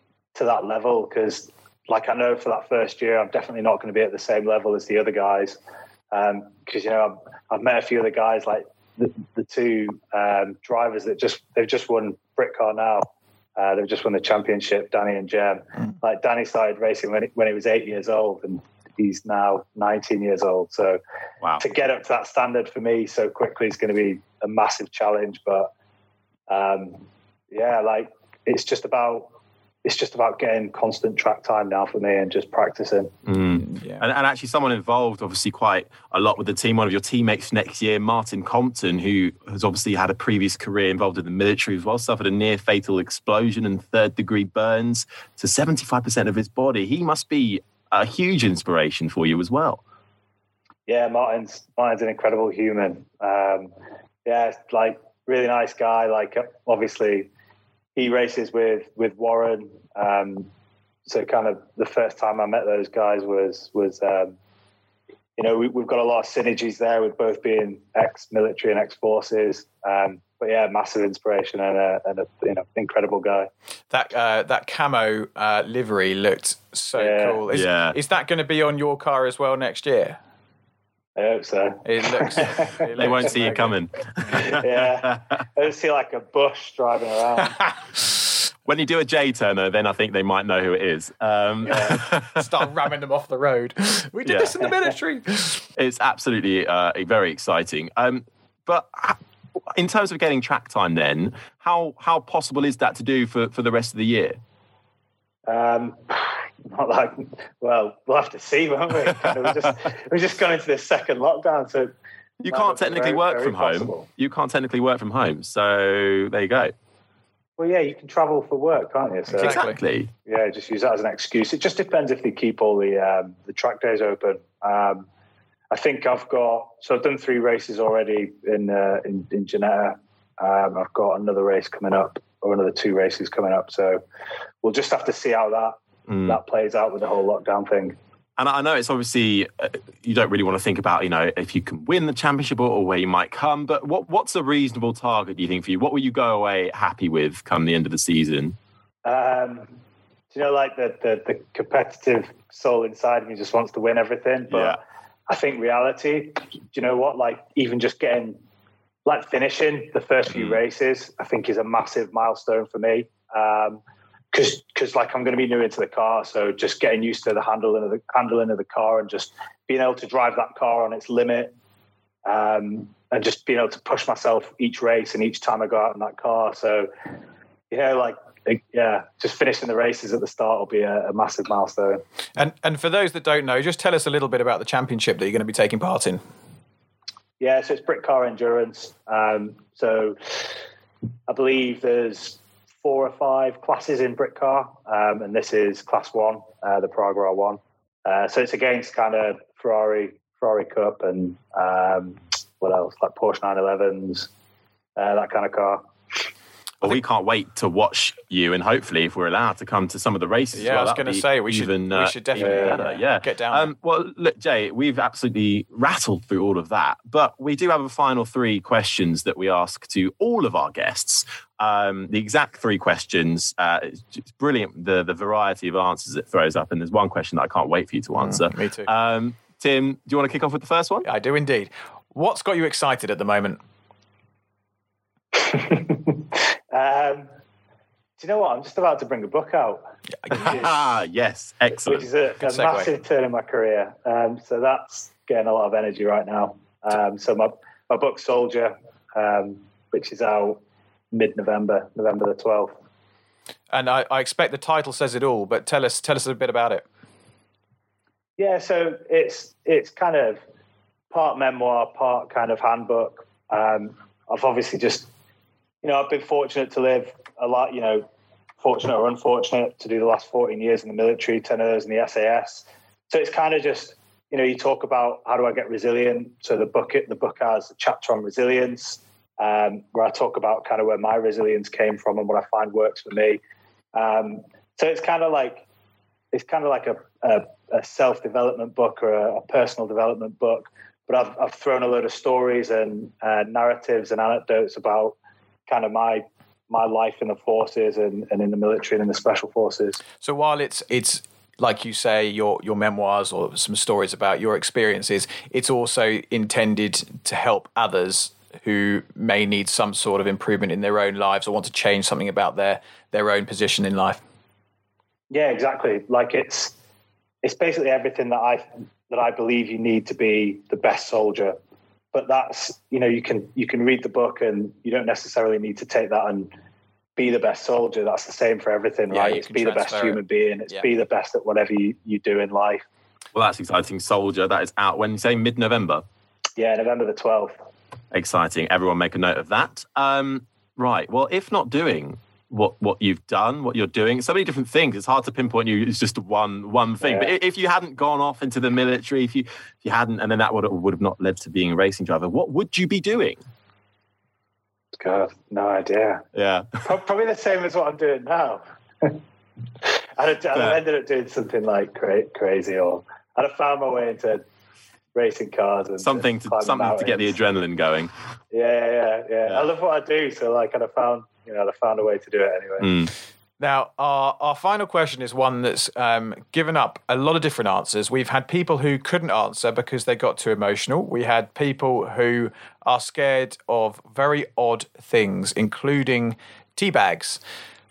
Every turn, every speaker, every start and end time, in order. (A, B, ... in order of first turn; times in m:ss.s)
0:00.3-0:05.6 A
0:06.1-0:21.0 A
0:21.6-0:25.7 A
0:26.5-0:29.3 A
0:29.8-0:33.1 A
0:33.3-0:49.8 B
0:33.6-0:34.0 C
0:50.9-0:53.7 A
0:54.2-0:57.3 A
0:58.0-1:00.5 A
1:01.1-1:04.4 A
1:05.4-1:13.5 A
1:13.9-1:20.2 C
1:17.0-1:17.4 A
1:17.5-1:18.0 B
1:21.2-1:22.9 A
1:21.8-1:24.5 C
1:23.0-1:25.3 B
1:24.3-1:27.6 A
1:28.7-1:32.4 B
1:31.7-1:32.0 A
1:31.7-1:35.6 C
1:34.2-1:34.5 B
1:35.8-1:39.2 B
1:39.7-1:44.4 B
1:45.5-1:54.0 A
1:52.4-1:56.7 B
1:57.6-1:59.6 A
1:59.3-1:59.8 C
1:59.4-2:00.1 B
2:00.3-2:05.1 A
2:05.7-2:14.0 A
2:14.6-2:18.0 A
2:16.1-2:16.4 B
2:18.4-2:28.6 B
2:29.0-2:29.7 A
2:30.3-2:38.4 A
2:34.5-2:34.8 B
2:39.1-2:43.8 A
2:40.3-2:40.6 B
2:44.3-2:51.5 A
2:52.2-2:56.9 A
2:57.7-3:02.0 A
3:02.4-3:06.2 C
3:07.4-3:10.5 A
3:11.3-3:24.3 A
3:25.0-3:25.8 A
3:26.8-3:51.1 B
3:30.5-3:33.7 C
3:32.4-3:32.8 A
3:48.3-3:48.9 C
3:51.0-3:53.6 C
3:55.4-3:57.3 A
3:58.2-4:00.8 A
4:00.3-4:02.1 B
4:01.9-4:10.6 A
4:02.4-4:02.9 C
4:11.1-4:12.8 A
4:13.7-4:16.8 C
4:18.4-4:20.4 A
4:21.1-4:25.1 A
4:25.8-4:28.1 A
4:28.6-4:43.4 A
4:44.0-4:45.6 A
4:46.3-4:55.2 A
4:55.7-5:00.0 A
5:00.2-5:14.2 C
5:15.3-5:16.7 A
5:17.4-5:21.6 A
5:22.1-5:26.5 A
5:27.2-5:32.8 A
5:29.1-5:30.9 C
5:33.3-5:36.0 B
5:36.6-5:37.6 A
5:38.1-5:53.4 B
5:47.0-5:47.3 A
5:55.0-5:56.2 A
5:56.4-5:56.8 B
5:56.8-5:59.2 A
5:59.8-6:04.4 A
6:00.5-6:00.8 B
6:05.2-6:07.4 A
6:06.0-6:08.1 B
6:08.5-6:13.1 A
6:12.8-6:13.1 B
6:13.6-6:27.4 C